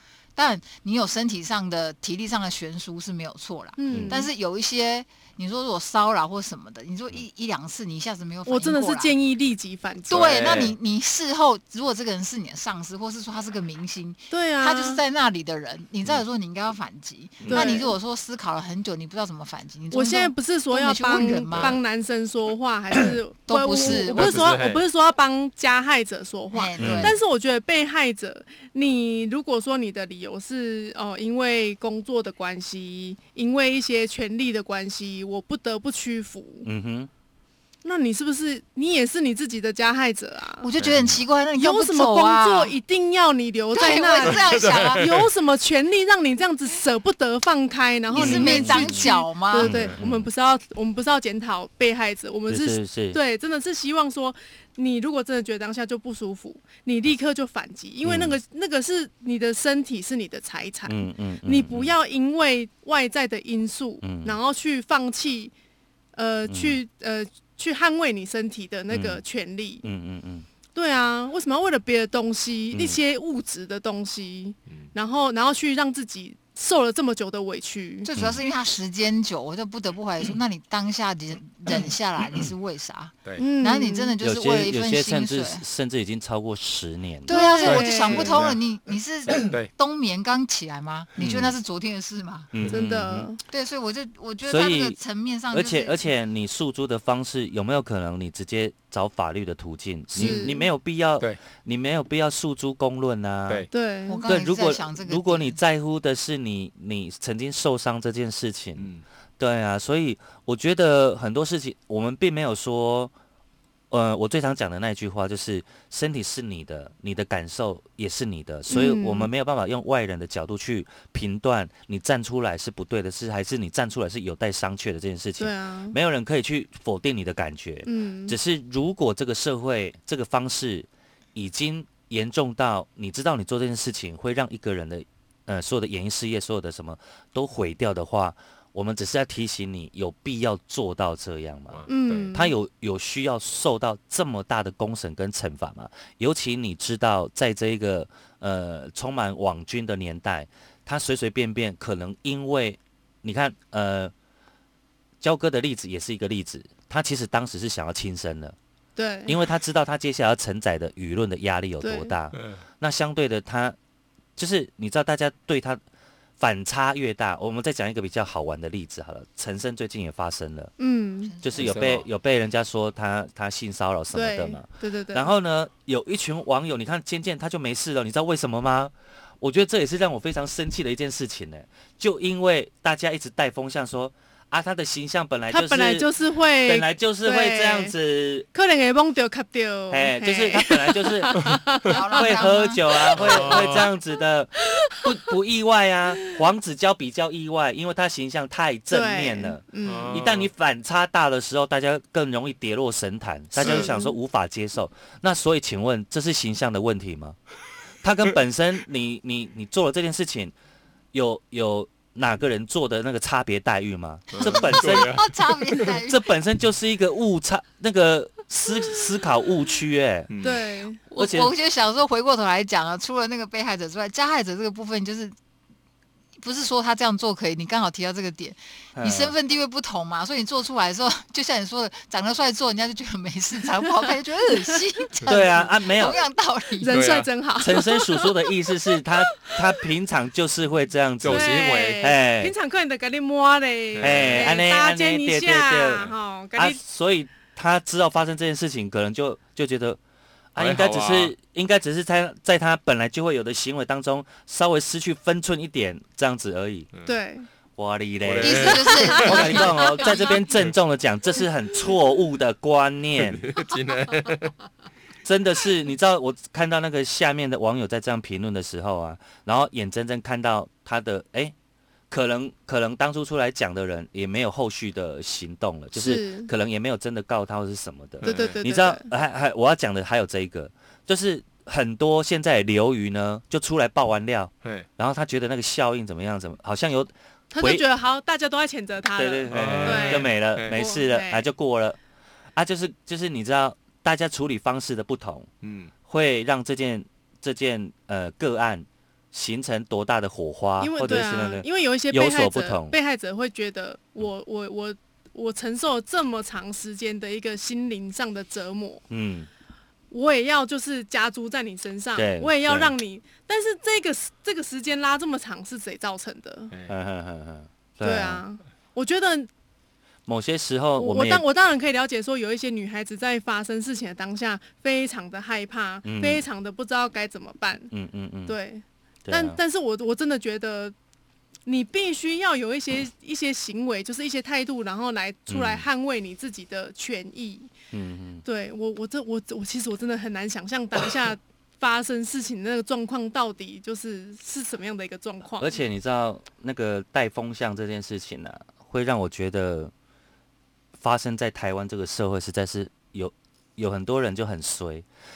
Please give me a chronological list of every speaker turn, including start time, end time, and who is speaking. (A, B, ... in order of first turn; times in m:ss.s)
0:00.4-0:09.1 A
0:03.8-0:04.3 B
0:08.4-0:10.6 B
0:10.1-0:21.8 A
0:10.1-0:10.7 C
0:14.3-0:15.0 B
0:17.5-0:17.9 B
0:19.9-0:36.7 B
0:21.2-0:21.7 C
0:23.5-0:24.6 A
0:23.8-0:24.8 C
0:26.5-0:27.2 A
0:26.8-0:27.1 C
0:36.6-0:37.1 D
0:37.8-0:40.7 B
0:40.6-0:42.7 A
0:40.8-0:41.2 C
0:41.6-1:05.5 B
0:43.7-0:45.0 A
0:44.2-0:45.2 C
0:48.1-0:49.7 A
0:48.1-0:50.3 D
0:49.7-0:50.0 C
0:52.5-0:53.2 D
0:58.0-0:58.4 D
1:00.9-1:01.9 D
1:04.0-1:04.4 D
1:06.1-1:09.8 B
1:06.5-1:06.8 D
1:08.9-1:09.2 D
1:09.8-1:10.4 D
1:10.7-1:18.1 B
1:12.7-1:13.0 D
1:18.0-1:25.6 A
1:18.2-1:18.4 D
1:23.4-1:24.1 B
1:24.2-1:27.4 D
1:27.2-1:32.5 A
1:27.3-1:28.4 B
1:27.6-1:28.6 C
1:29.3-1:29.7 C
1:31.2-1:31.4 D
1:31.2-1:31.5 C
1:32.5-1:33.3 D
1:32.7-1:33.4 B
1:33.5-1:36.0 A
1:34.5-1:35.0 D
1:35.5-1:43.7 D
1:40.1-1:40.7 B
1:43.7-1:44.2 B
1:44.1-1:45.6 A
1:44.2-1:53.1 D
1:48.8-1:49.0 C
1:53.9-2:34.1 D
1:58.7-1:59.3 B
2:05.4-2:06.0 B
2:07.8-2:08.4 B
2:21.7-2:22.3 C
2:21.9-2:22.5 B
2:35.2-2:38.6 D
2:39.0-2:39.4 B
2:39.3-2:43.8 D
2:41.8-2:42.1 B
2:42.3-2:42.6 C
2:44.4-2:45.8 D
2:46.4-2:50.7 D
2:50.8-2:51.3 B
2:51.2-2:51.7 A
2:51.4-3:06.1 D
2:51.6-2:52.1 C
2:54.1-2:55.3 B
3:05.5-3:07.9 B
3:06.6-3:08.4 D
3:08.5-3:12.2 B
3:09.9-3:11.5 D
3:11.8-3:13.1 A
3:12.1-3:27.4 D
3:13.0-3:13.4 B
3:13.2-3:13.9 C
3:18.9-3:20.2 B
3:19.8-3:20.5 C
3:23.6-3:24.1 B
3:23.6-3:23.9 C
3:28.0-3:30.5 D
3:31.1-3:35.3 D
3:34.3-3:35.3 C
3:34.4-3:36.3 A
3:35.8-3:40.3 D
3:40.3-3:40.6 C
3:40.4-3:41.0 B
3:41.1-3:45.3 A
3:41.2-3:41.5 D
3:46.4-3:57.0 A
3:48.9-3:49.3 D
3:54.5-3:55.7 B
3:55.3-3:56.2 D
3:56.8-3:59.7 B
3:56.9-3:57.3 C
3:57.6-4:02.5 D
4:01.2-4:02.0 C
4:01.3-4:06.8 B
4:03.9-4:04.4 C
4:04.0-4:10.0 D
4:10.5-4:16.9 D
4:10.6-4:11.3 C
4:17.0-4:17.5 B
4:17.8-4:23.5 D
4:18.2-4:19.6 C
4:18.4-4:20.4 A
4:19.0-4:19.5 B
4:23.3-4:24.5 C
4:25.2-4:31.5 D
4:32.1-4:47.8 D
4:35.9-4:36.5 B
4:38.2-4:38.6 C
4:38.2-4:39.1 B
4:47.5-4:51.5 B
4:49.2-4:52.0 D
4:49.5-4:50.8 C
4:52.5-4:55.5 D
4:55.6-4:55.9 C
4:56.0-5:03.0 D
5:00.8-5:09.0 B
5:09.1-5:09.5 D
5:10.1-5:16.7 B
5:12.2-5:12.9 D
5:16.9-5:18.4 D
5:18.0-5:19.5 B
5:20.3-5:21.4 D
5:21.0-5:27.9 B
5:26.0-5:26.4 D
5:27.9-5:28.6 D
5:28.5-5:30.9 B
5:29.2-5:29.6 D
5:31.6-5:37.7 B
5:35.5-5:35.8 D
5:37.9-5:38.4 D
5:38.4-5:45.7 B
5:45.6-5:49.9 D
5:51.0-5:55.0 D